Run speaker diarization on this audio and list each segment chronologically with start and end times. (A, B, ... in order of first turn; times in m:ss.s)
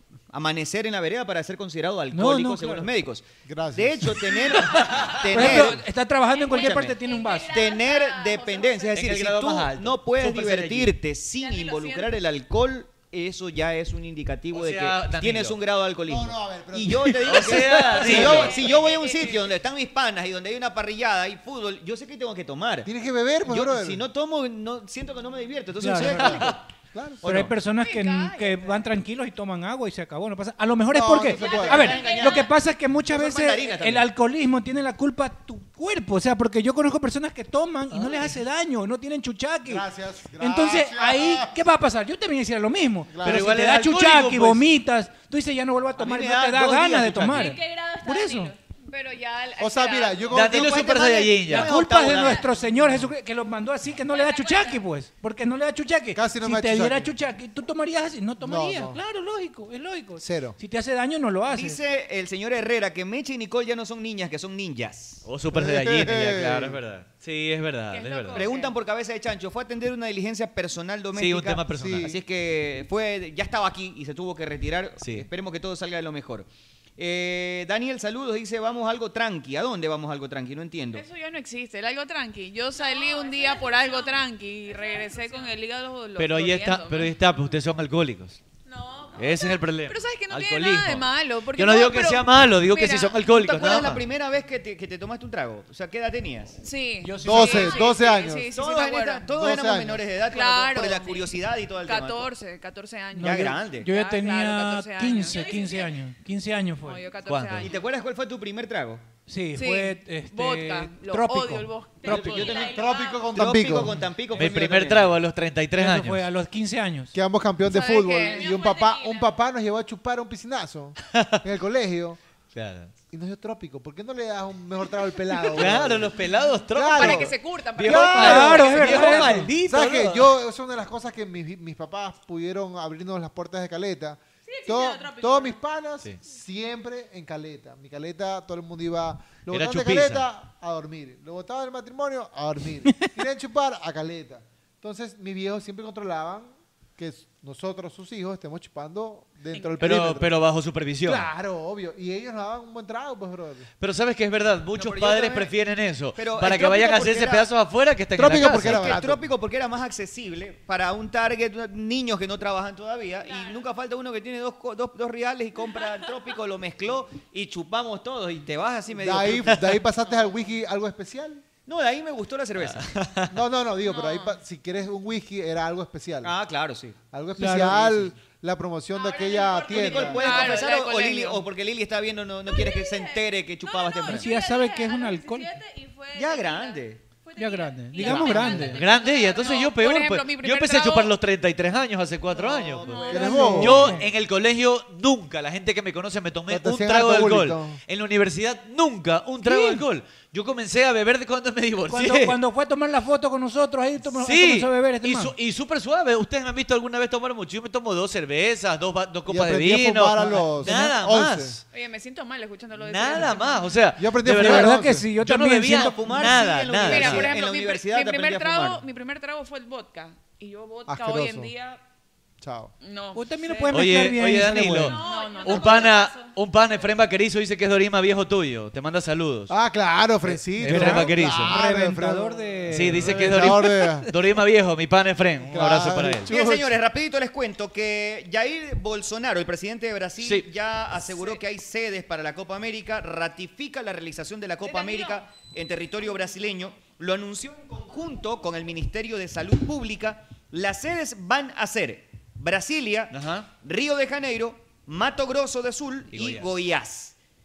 0:00.3-0:05.8 A
0:02.1-0:02.9 B
0:03.4-0:04.4 C
0:04.7-0:05.7 D
0:05.3-0:07.7 B
0:06.3-0:09.0 E
0:06.5-0:07.0 A
0:07.5-0:22.9 A
0:08.9-0:10.9 D
0:11.4-0:12.1 E
0:14.5-0:15.6 D
0:16.1-0:18.4 C
0:17.2-0:18.5 D
0:18.1-0:19.3 E
0:18.4-0:19.3 F
0:22.8-0:24.0 C
0:23.4-0:26.6 A
0:25.8-0:26.4 B
0:25.9-0:27.2 C
0:27.2-0:27.5 A
0:27.2-0:39.8 B
0:27.8-0:28.9 F
0:30.9-0:32.0 C
0:31.2-0:32.5 A
0:31.6-0:32.4 E
0:31.8-0:32.4 F
0:33.1-0:34.1 A
0:37.9-0:38.3 D
0:39.6-0:41.6 C
0:40.4-0:48.5 B
0:43.1-0:43.6 C
0:43.2-0:44.7 D
0:46.0-0:47.5 A
0:47.3-0:48.6 E
0:48.9-0:50.3 F
0:49.6-0:51.2 C
0:50.3-0:51.8 D
0:50.4-0:52.5 A
0:51.4-1:01.8 B
0:52.1-0:52.6 E
0:54.1-0:54.8 E
0:56.1-0:57.1 C
0:58.4-0:59.0 C
1:00.2-1:00.6 C
1:01.5-1:05.2 A
1:05.2-1:08.4 D
1:05.5-1:06.8 C
1:07.9-1:08.7 F
1:08.3-1:21.0 A
1:11.1-1:12.1 D
1:11.7-1:12.1 C
1:15.0-1:15.3 D
1:20.9-1:27.1 F
1:22.7-1:25.6 E
1:26.2-1:28.4 D
1:28.6-1:29.6 E
1:29.2-1:34.0 D
1:29.8-1:33.8 F
1:33.2-1:36.6 A
1:36.6-1:39.3 F
1:37.0-1:37.9 B
1:37.2-1:38.5 C
1:38.5-1:42.3 A
1:39.3-1:40.0 C
1:40.2-1:45.8 F
1:43.1-1:47.1 B
1:43.2-1:43.9 A
1:45.2-1:45.9 E
1:46.8-1:47.8 F
1:47.2-1:47.7 D
1:47.6-1:49.0 A
1:49.3-1:52.5 B
1:49.5-1:52.7 F
1:52.0-1:53.3 E
1:52.1-1:54.0 C
1:52.2-1:52.7 A
1:53.3-1:55.2 A
1:54.3-1:56.3 D
1:55.8-1:57.1 B
1:57.1-2:02.2 C
1:57.6-1:58.5 F
1:58.2-1:59.4 E
2:01.1-2:01.4 D
2:02.5-2:02.9 D
2:03.1-2:06.2 C
2:05.5-2:10.3 D
2:06.7-2:30.3 C
2:06.9-2:09.2 F
2:08.1-2:09.5 B
2:14.4-2:15.6 E
2:19.5-2:20.2 D
2:29.5-2:29.8 F
2:29.8-2:31.3 D
2:31.0-2:33.7 C
2:33.8-2:39.0 D
2:34.7-2:35.5 A
2:36.1-2:37.5 A
2:38.2-2:39.2 C
2:38.4-2:49.8 A
2:43.2-2:43.5 E
2:49.0-2:51.4 C
2:51.6-2:52.9 A
2:52.6-2:53.3 D
2:53.3-2:56.3 C
2:53.8-2:54.3 F
2:56.2-2:57.0 A
2:57.1-3:00.3 C
2:57.4-2:58.1 B
2:58.9-3:00.7 E
2:59.7-3:04.3 A
2:59.7-3:01.5 F
3:02.4-3:09.6 E
3:04.1-3:05.5 B
3:06.1-3:07.0 A
3:07.4-3:08.8 B
3:08.0-3:08.6 C
3:08.0-3:11.1 F
3:08.6-3:22.4 D
3:12.3-3:13.7 A
3:12.8-3:13.4 F
3:13.1-3:14.0 C
3:13.2-3:14.0 B
3:16.5-3:17.8 C
3:19.4-3:19.8 B
3:21.9-3:25.3 B
3:24.0-3:31.6 D
3:29.3-3:31.6 C
3:30.6-3:30.9 B
3:31.7-3:33.8 F
3:32.7-3:37.3 D
3:34.0-3:35.1 C
3:34.3-3:36.0 B
3:35.7-3:38.8 A
3:36.2-3:41.8 F
3:40.9-3:41.5 C
3:42.4-3:42.7 C
3:42.8-3:44.0 F
3:43.1-3:45.0 B
3:43.7-3:49.5 D
3:44.8-3:46.3 E
3:44.9-3:46.2 F
3:49.5-3:54.1 C
3:50.2-3:51.6 D
3:50.6-3:54.1 B
3:52.7-3:56.3 D
3:55.5-3:56.8 C
3:56.2-4:17.1 A
4:00.2-4:00.5 D
4:04.8-4:05.1 F
4:04.8-4:05.1 E
4:13.1-4:13.5 D
4:16.1-4:16.6 D